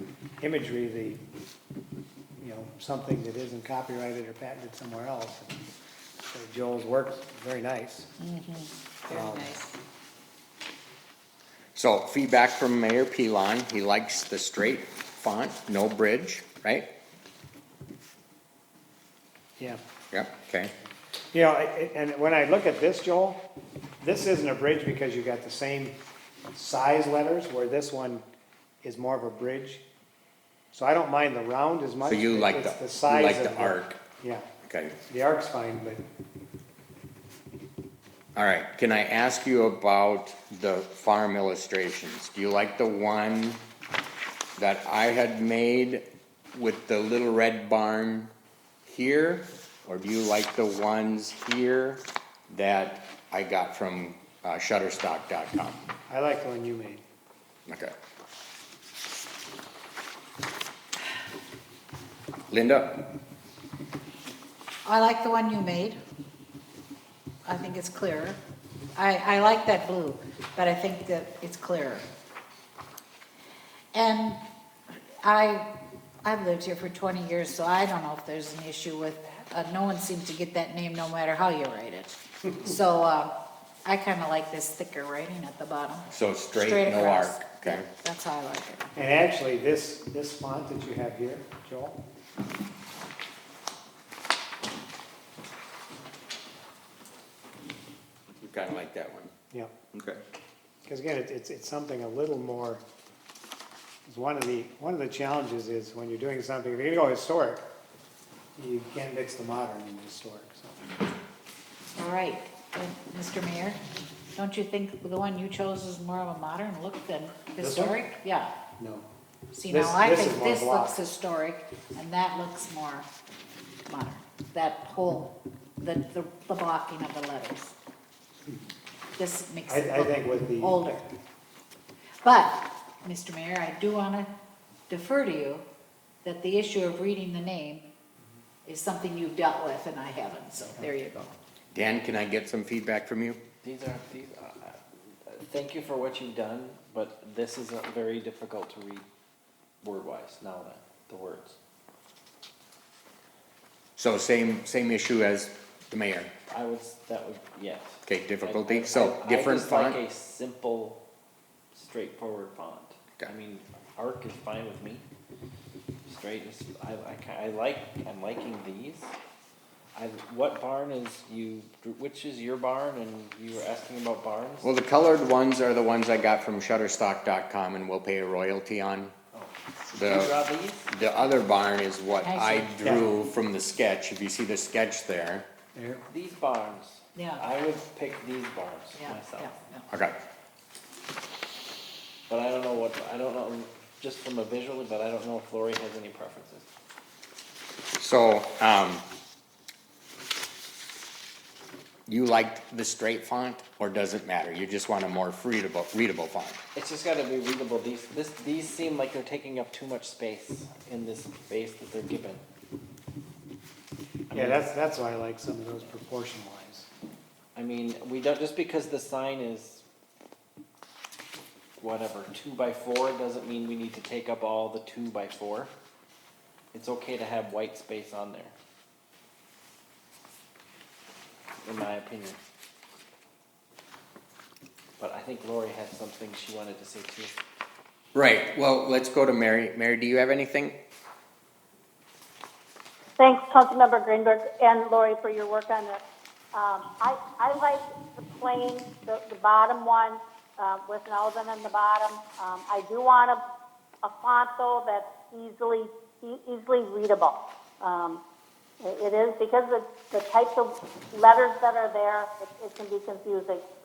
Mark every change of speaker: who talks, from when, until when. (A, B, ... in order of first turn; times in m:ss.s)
0:00.4-0:01.2 A
0:02.4-0:05.6 A
0:06.3-0:08.1 A
0:08.2-0:09.7 B
0:09.1-0:09.6 A
0:11.7-0:16.9 C
0:20.1-0:20.7 C
0:21.3-0:23.4 A
0:24.0-0:26.0 A
0:26.5-0:28.2 A
0:28.8-0:29.8 A
0:30.7-0:34.5 A
0:32.0-0:34.0 C
0:34.6-0:35.0 C
0:35.0-0:36.0 A
0:38.4-0:43.6 C
0:44.6-0:48.3 C
0:48.9-0:55.8 C
0:56.1-0:57.0 A
0:57.7-0:58.0 C
1:02.5-1:03.0 C
1:04.8-1:06.0 B
1:07.4-1:08.4 B
1:09.0-1:12.0 B
1:13.9-1:14.4 B
1:15.2-1:15.7 B
1:16.2-1:23.3 B
1:23.9-1:28.8 B
1:26.1-1:27.9 C
1:29.0-1:32.0 A
1:38.4-1:39.3 C
1:39.9-1:40.2 C
1:40.9-1:42.8 A
1:44.1-1:47.6 A
1:48.6-1:50.8 A
1:51.9-1:53.8 B
1:54.4-1:58.5 B
1:57.6-1:58.0 A
1:58.8-1:59.1 A
1:59.5-2:03.1 B
1:59.7-2:01.0 A
2:03.9-2:07.7 B
2:09.2-2:11.0 B
2:09.7-2:11.0 A
2:12.2-2:14.3 B
2:14.9-2:15.6 B
2:16.2-2:17.8 B
2:18.6-2:21.3 B
2:21.7-2:23.4 C
2:23.6-2:29.1 D
2:29.8-2:31.6 D
2:34.0-2:36.3 C
2:36.5-2:41.0 D
2:38.0-2:40.0 C
2:41.7-2:45.0 D
2:46.1-2:49.1 D
2:49.9-2:54.7 D
2:54.6-2:59.1 C
2:59.3-3:00.9 D
2:59.9-3:00.3 C
3:00.9-3:05.4 C
3:02.2-3:02.7 B
3:05.7-3:06.0 A
3:06.1-3:09.6 D
3:07.1-3:07.4 B
3:08.9-3:09.9 B
3:09.9-3:10.2 C
3:12.3-3:16.7 D
3:18.0-3:19.0 C
3:22.1-3:26.6 C
3:26.7-3:32.4 D
3:34.3-3:34.7 D
3:34.3-3:36.9 A
3:37.5-3:39.8 D
3:41.8-3:45.7 D
3:46.7-3:48.5 D
3:51.6-3:52.4 D
3:55.0-3:57.4 D
3:58.1-4:00.7 C
4:03.2-4:06.0 E
4:06.5-4:13.4 E
4:14.0-4:18.2 E
4:18.8-4:23.6 E